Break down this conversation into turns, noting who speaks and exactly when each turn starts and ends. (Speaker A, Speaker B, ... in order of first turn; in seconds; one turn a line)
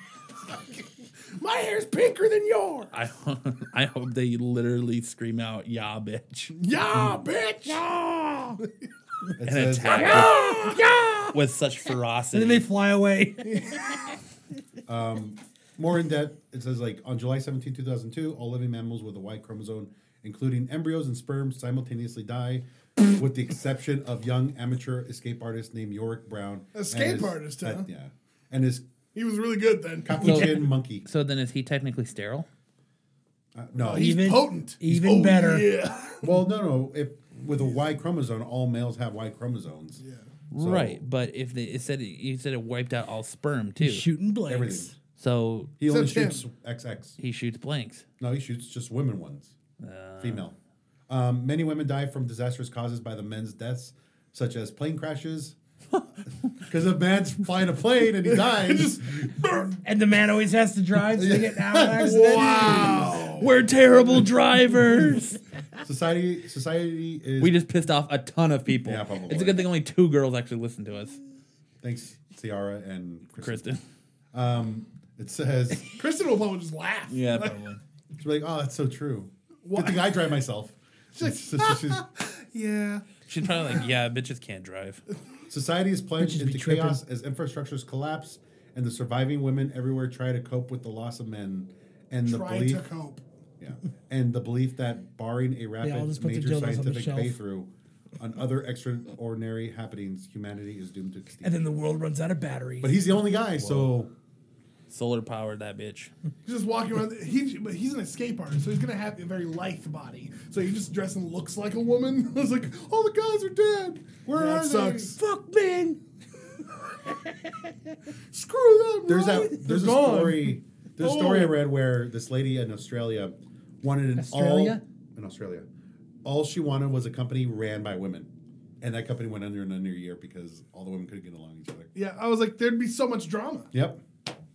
Speaker A: 0.4-2.9
Speaker B: 2.9-6.6
Speaker A: 6.5-7.9
Speaker C: 9.4-10.3
Speaker B: 9.4-10.6
Speaker A: 9.9-11.0
Speaker D: 10.2-11.0
Speaker B: 11.3-12.7
Speaker D: 12.3-13.8
Speaker A: 13.4-13.9
Speaker C: 14.9-28.9
Speaker A: 26.7-27.9
Speaker A: 29.1-30.6
Speaker C: 30.0-31.1
Speaker B: 30.2-32.5
Speaker C: 33.5-34.3
Speaker A: 33.8-36.4
Speaker D: 33.9-35.7
Speaker C: 36.2-40.0
Speaker A: 40.0-40.3
Speaker B: 40.5-44.1
Speaker C: 40.5-41.0
Speaker D: 43.8-45.0
Speaker C: 44.5-44.9
Speaker B: 45.2-45.7
Speaker C: 45.8-47.2
Speaker A: 45.8-46.5
Speaker B: 47.2-48.1
Speaker C: 48.2-49.6
Speaker B: 49.8-50.5
Speaker C: 50.2-50.6
Speaker C: 51.1-55.6
Speaker C: 56.6-59.5
Speaker A: 58.3-59.8
Speaker D: 59.8-65.4
Speaker C: 61.1-63.5
Speaker A: 62.0-63.5
Speaker C: 65.8-67.6
Speaker B: 67.4-71.2
Speaker C: 68.8-69.7
Speaker C: 71.8-73.7
Speaker B: 73.4-73.8
Speaker C: 74.3-75.9
Speaker A: 75.9-77.6
Speaker B: 77.1-77.8
Speaker C: 78.2-82.1
Speaker A: 79.6-80.2
Speaker A: 81.2-83.8
Speaker B: 83.3-85.0
Speaker C: 85.5-92.9
Speaker D: 86.2-87.0
Speaker A: 92.2-93.2
Speaker C: 93.6-101.7
Speaker D: 95.8-97.4
Speaker D: 101.4-103.0
Speaker C: 102.8-104.1
Speaker B: 103.6-103.9
Speaker B: 104.9-106.1
Speaker A: 106.5-115.2
Speaker C: 114.2-115.2
Speaker D: 115.2-116.0
Speaker A: 118.3-121.6
Speaker C: 119.1-125.7
Speaker D: 124.2-124.8
Speaker C: 126.2-131.9
Speaker A: 131.9-133.7
Speaker C: 133.7-134.0